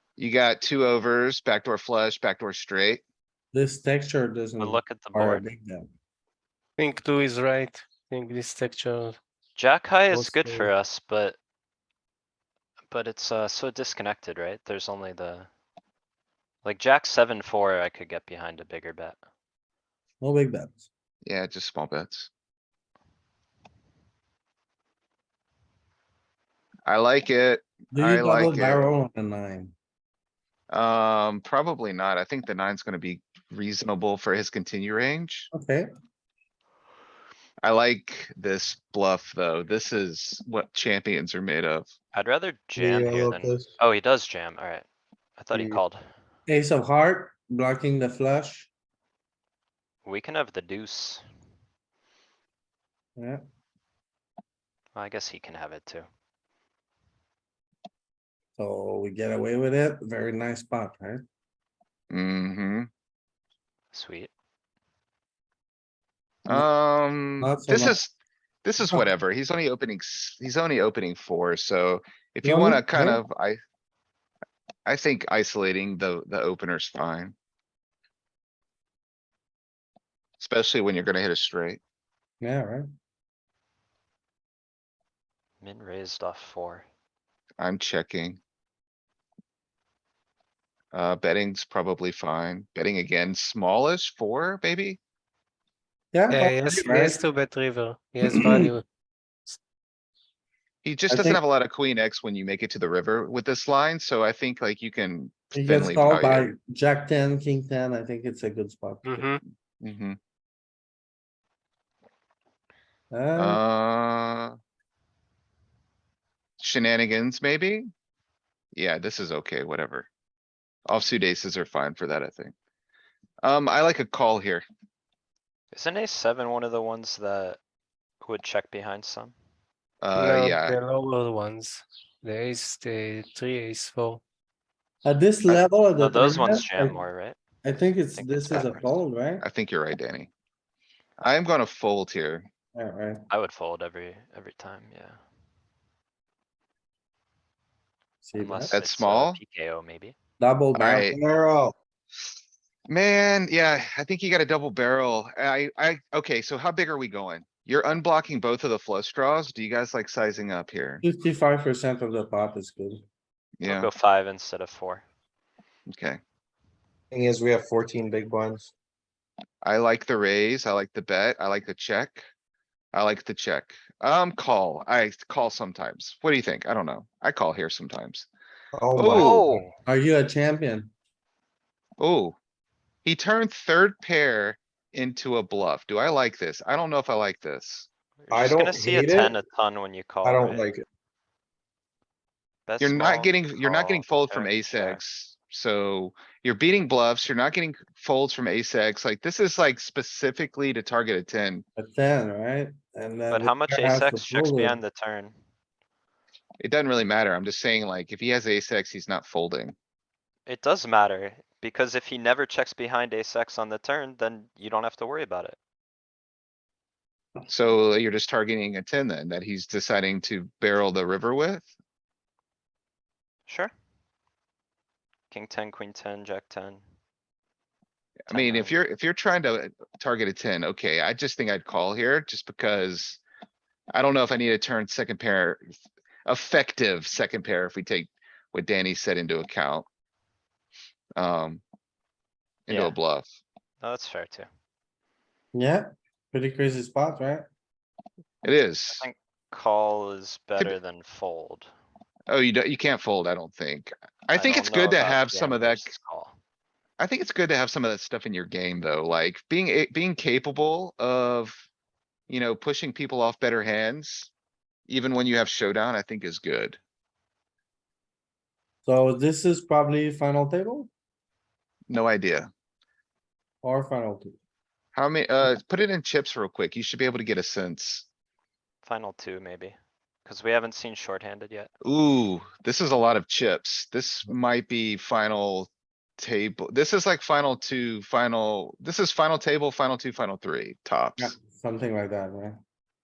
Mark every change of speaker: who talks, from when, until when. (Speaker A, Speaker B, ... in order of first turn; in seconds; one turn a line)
Speaker A: 0.2-3.0
Speaker B: 3.5-5.8
Speaker C: 4.6-5.4
Speaker D: 6.8-9.2
Speaker C: 9.6-11.4
Speaker B: 10.1-10.7
Speaker C: 12.9-15.5
Speaker C: 16.6-19.2
Speaker B: 20.2-20.9
Speaker A: 21.2-22.3
Speaker A: 26.9-29.0
Speaker B: 27.9-29.7
Speaker A: 30.7-35.5
Speaker B: 35.5-35.9
Speaker A: 37.6-41.9
Speaker C: 42.1-44.9
Speaker B: 42.8-43.6
Speaker E: 42.8-43.3
Speaker C: 45.4-46.0
Speaker E: 45.5-45.8
Speaker B: 46.5-48.7
Speaker C: 50.0-51.2
Speaker C: 54.9-56.1
Speaker B: 58.6-61.2
Speaker A: 62.1-62.9
Speaker C: 63.9-64.3
Speaker A: 66.4-68.1
Speaker B: 67.4-68.0
Speaker A: 68.6-73.6
Speaker B: 72.4-73.2
Speaker A: 74.8-77.3
Speaker A: 80.4-81.8
Speaker B: 82.4-82.8
Speaker C: 85.6-86.8
Speaker A: 87.6-88.4
Speaker A: 90.9-95.0
Speaker B: 96.1-97.2
Speaker D: 96.3-98.8
Speaker B: 98.2-98.7
Speaker A: 100.8-106.5
Speaker B: 101.1-101.4
Speaker B: 105.5-109.2
Speaker D: 109.0-109.4
Speaker A: 109.8-110.2
Speaker B: 113.1-113.6
Speaker A: 113.3-114.5
Speaker A: 116.6-117.8
Speaker A: 118.7-120.1
Speaker A: 120.9-122.5
Speaker A: 123.4-124.6
Speaker C: 125.7-127.6
Speaker C: 128.2-129.3
Speaker A: 130.0-130.8
Speaker D: 130.1-134.2
Speaker B: 135.0-137.0
Speaker C: 135.5-137.3
Speaker B: 137.6-139.4
Speaker C: 138.1-138.9
Speaker A: 139.4-140.3
Speaker A: 141.2-142.4
Speaker B: 142.7-143.2
Speaker C: 143.3-145.2
Speaker B: 148.2-148.7
Speaker C: 148.3-150.1
Speaker A: 148.7-149.4
Speaker B: 150.4-151.2
Speaker A: 150.7-151.2
Speaker E: 151.2-151.7
Speaker A: 152.9-161.0
Speaker B: 161.0-163.0
Speaker A: 163.6-163.9
Speaker C: 163.7-165.0
Speaker A: 165.9-166.2
Speaker E: 167.1-168.7
Speaker A: 169.6-172.2
Speaker A: 172.9-178.3
Speaker E: 178.7-179.6
Speaker A: 178.9-179.4
Speaker C: 179.1-179.7
Speaker B: 179.8-180.9
Speaker A: 182.0-182.3
Speaker A: 183.0-187.9
Speaker C: 188.2-190.6
Speaker E: 188.3-189.4
Speaker E: 190.2-190.8
Speaker C: 192.7-195.0
Speaker A: 192.8-201.6
Speaker B: 201.8-204.8
Speaker C: 203.3-205.4
Speaker A: 206.6-209.7
Speaker C: 210.4-215.6
Speaker A: 217.5-221.7
Speaker C: 223.5-223.7
Speaker C: 225.3-226.8
Speaker C: 228.3-228.8
Speaker A: 228.3-233.2
Speaker A: 233.9-235.7
Speaker A: 236.2-239.8
Speaker A: 241.2-241.6
Speaker A: 242.7-243.3
Speaker C: 242.7-242.9
Speaker C: 243.8-244.5
Speaker B: 245.5-247.4
Speaker A: 248.4-249.1
Speaker C: 248.9-251.7
Speaker A: 252.3-255.9
Speaker C: 254.3-256.4
Speaker A: 257.0-261.6
Speaker A: 262.3-264.3
Speaker A: 264.9-266.8
Speaker B: 268.8-270.9
Speaker A: 271.9-272.5
Speaker B: 273.6-274.4
Speaker A: 274.9-278.1
Speaker C: 278.8-281.7
Speaker A: 281.8-291.4
Speaker B: 291.2-292.6